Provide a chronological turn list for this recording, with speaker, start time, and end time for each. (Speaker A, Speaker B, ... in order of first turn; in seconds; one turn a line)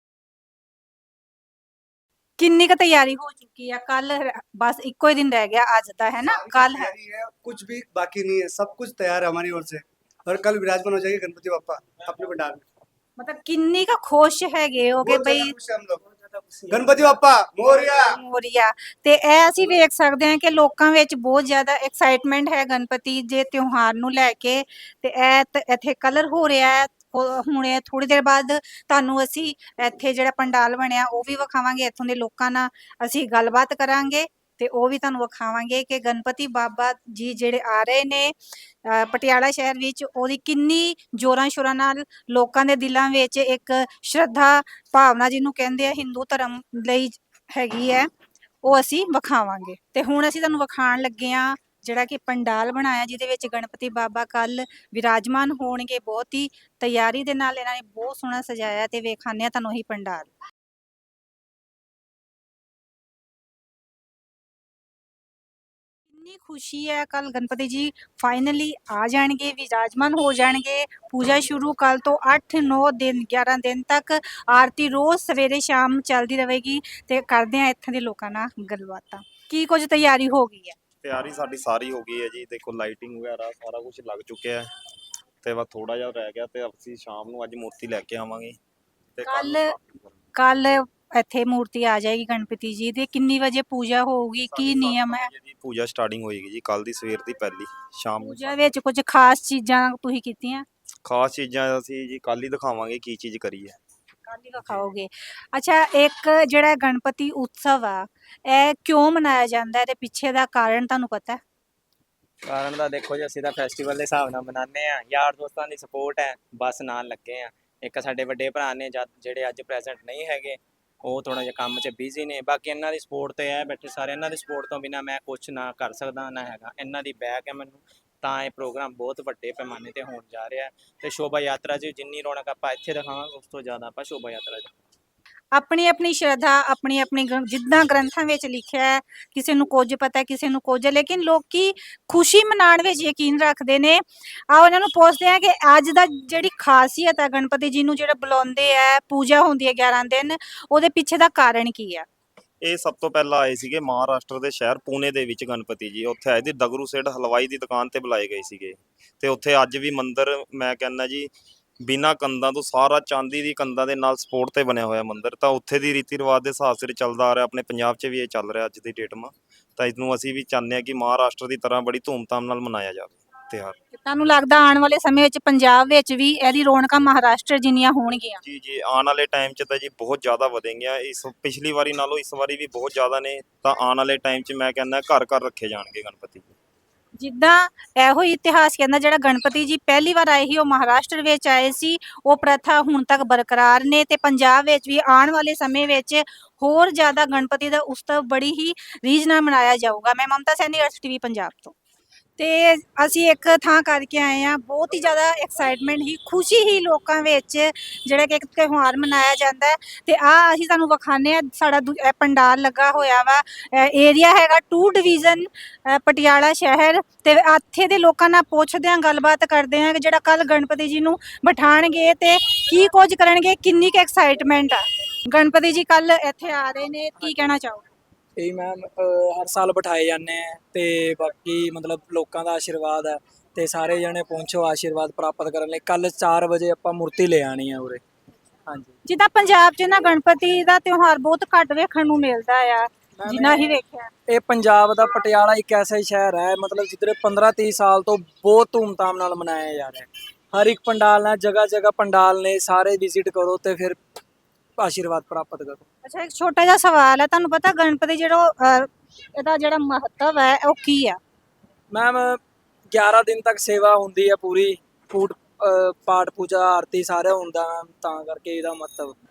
Speaker A: 2.4-6.9
Speaker B: 6.2-12.6
Speaker A: 13.2-15.5
Speaker B: 15.0-18.0
Speaker A: 17.9-38.3
Speaker A: 38.8-48.1
Speaker A: 48.6-60.3
Speaker A: 66.1-80.8
Speaker C: 81.0-84.7
Speaker C: 85.4-88.6
Speaker C: 89.1-90.0
Speaker A: 89.2-89.7
Speaker A: 90.3-95.3
Speaker C: 94.5-98.7
Speaker A: 98.2-100.7
Speaker C: 101.0-103.8
Speaker A: 104.2-111.4
Speaker D: 112.5-134.7
Speaker A: 135.5-152.1
Speaker C: 152.6-161.3
Speaker C: 161.8-173.8
Speaker A: 173.9-178.4
Speaker C: 178.4-186.5
Speaker A: 187.2-201.8
Speaker A: 202.4-227.8
Speaker E: 228.3-238.0
Speaker E: 238.7-238.9
Speaker A: 239.1-244.1
Speaker E: 243.2-243.7
Speaker E: 244.3-254.0
Speaker E: 254.8-255.8
Speaker A: 256.0-261.2
Speaker E: 261.9-269.2